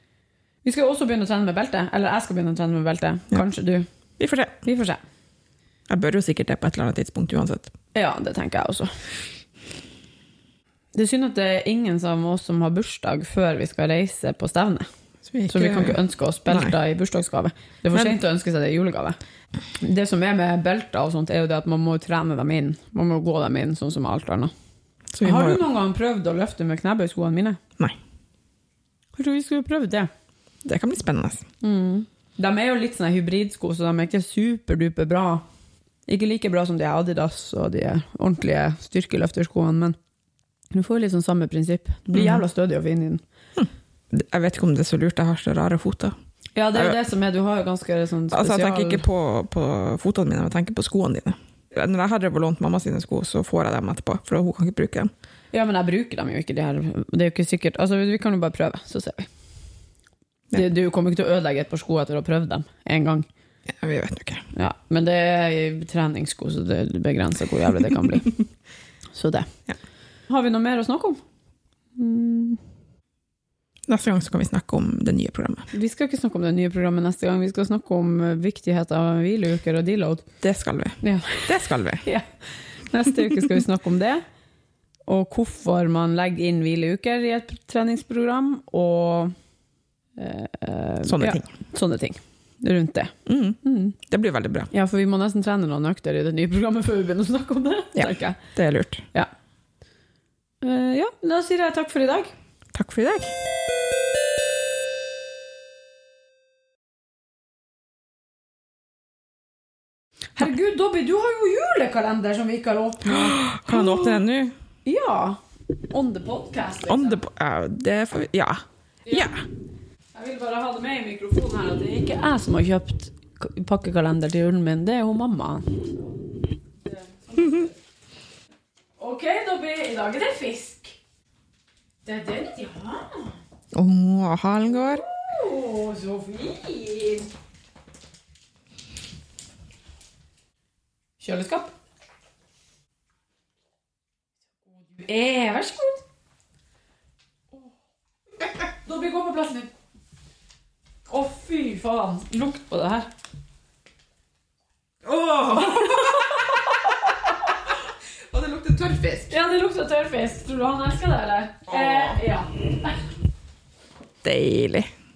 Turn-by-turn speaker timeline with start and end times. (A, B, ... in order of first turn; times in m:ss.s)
0:00.6-0:03.9 A
0:04.2-0:04.6 B
0:04.6-0:05.0 A
0:05.9-0:07.7 B
0:08.0-0:09.0 A
0:11.0-0:14.9 A
0:15.3-0:16.0 B
0:15.5-0:19.2 A
0:16.5-0:16.7 B
0:19.8-0:24.5 A
0:25.1-0:25.6 B
0:25.2-0:27.6 A
0:29.2-0:30.1 A
0:30.6-0:31.5 B
0:31.6-0:35.4 A
0:36.1-0:40.0 A
0:40.7-0:43.2 A
0:42.1-0:42.4 B
0:43.6-0:46.1 B
0:46.6-0:49.1 A
0:48.3-0:55.1 B
0:55.5-0:59.3 A
1:00.5-1:03.3 A
1:03.7-1:04.5 B
1:04.5-1:08.4 A
1:09.1-1:09.5 A
1:10.3-1:11.2 A
1:12.0-1:12.6 A
1:13.9-1:15.7 B
1:15.7-1:20.3 A
1:20.4-1:22.1 B
1:21.0-1:24.2 A
1:25.1-1:29.4 A
1:30.2-1:34.0 A
1:31.1-1:31.5 B
1:33.3-1:34.7 B
1:34.7-1:38.4 A
1:38.0-1:39.1 B
1:40.6-1:42.3 A
1:42.7-1:43.4 B
1:50.4-1:54.2 A
1:53.0-1:54.6 B
1:54.8-1:55.4 A
1:55.9-1:57.2 A
1:56.9-1:59.4 B
1:59.1-1:59.4 A
2:00.1-2:06.0 A
2:06.9-2:07.7 A
2:09.0-2:11.0 A
2:12.1-2:13.3 A
2:13.7-2:15.0 B
2:14.9-2:17.3 A
2:21.2-2:21.7 A
2:24.9-2:26.0 A
2:28.8-2:29.7 A
2:31.1-2:33.1 A
2:35.0-2:36.5 B
2:35.5-2:37.7 A
2:38.3-2:39.3 B
2:39.3-2:43.0 A
2:41.7-2:42.2 B
2:44.2-2:44.9 B